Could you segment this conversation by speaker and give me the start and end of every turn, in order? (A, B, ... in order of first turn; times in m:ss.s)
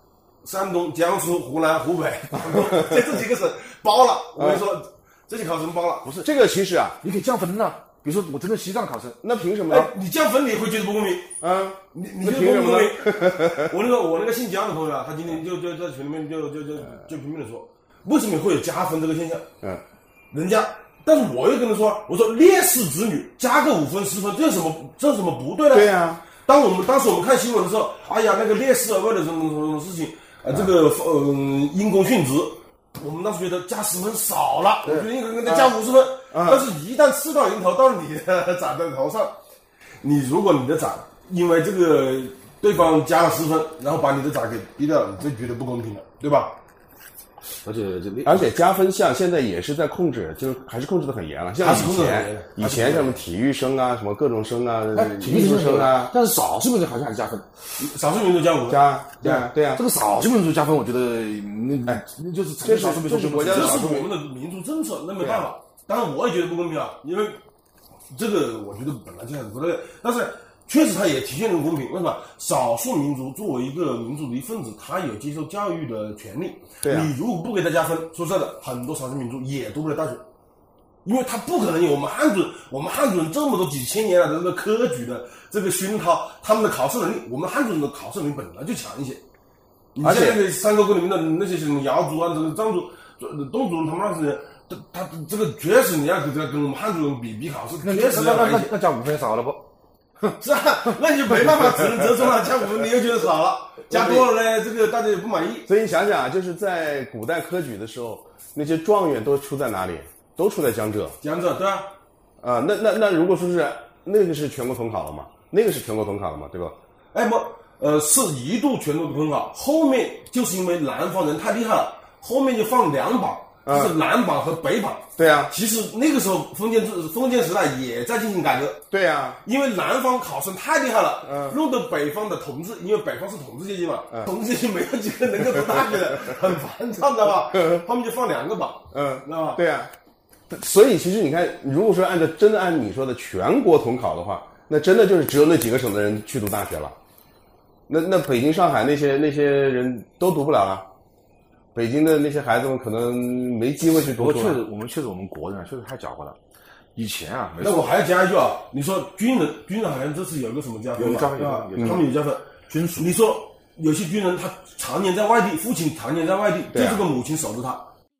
0:00.4-0:06.1 A
0:04.4-0:04.6 B
0:06.0-0:06.3 C
0:06.2-0:07.0 B
0:07.0-0:09.2 C
0:09.2-0:09.9 B
0:09.7-0:11.3 A
0:11.4-0:13.6 B
0:11.9-0:19.5 A
0:20.3-0:39.4 A
0:25.7-0:26.2 B
0:35.4-0:35.7 B
0:36.3-0:36.6 B
0:40.0-0:46.6 A
0:47.6-0:48.5 C
0:48.2-0:56.1 B
0:51.6-0:53.2 A
0:54.9-0:57.5 C
0:57.8-0:58.8 A
0:58.7-0:59.8 B
0:59.2-1:03.9 C
1:02.6-1:04.1 B
1:03.5-1:07.4 A
1:05.2-1:05.5 B
1:08.1-1:20.2 A
1:16.8-1:17.1 B
1:21.0-1:29.2 A
1:29.9-1:38.8 A
1:30.0-1:30.4 B
1:37.8-1:39.7 C
1:40.3-1:45.7 A
1:43.9-1:44.3 B
1:45.6-1:51.2 B
1:51.2-1:51.9 A
1:52.4-1:56.8 B
1:57.1-2:08.8 A
2:03.6-2:03.9 B
2:05.2-2:05.5 B
2:08.9-2:09.4 B
2:09.4-2:19.6 A
2:11.2-2:11.6 B
2:17.4-2:17.8 B
2:18.9-2:19.9 B
2:20.5-2:27.0 B
2:27.9-2:30.9 B
2:31.7-2:34.6 B
2:34.1-2:36.4 C
2:36.9-2:37.9 C
2:37.6-2:47.9 A
2:40.9-2:42.1 C
2:41.8-2:42.0 B
2:42.7-2:43.1 C
2:46.7-2:47.0 B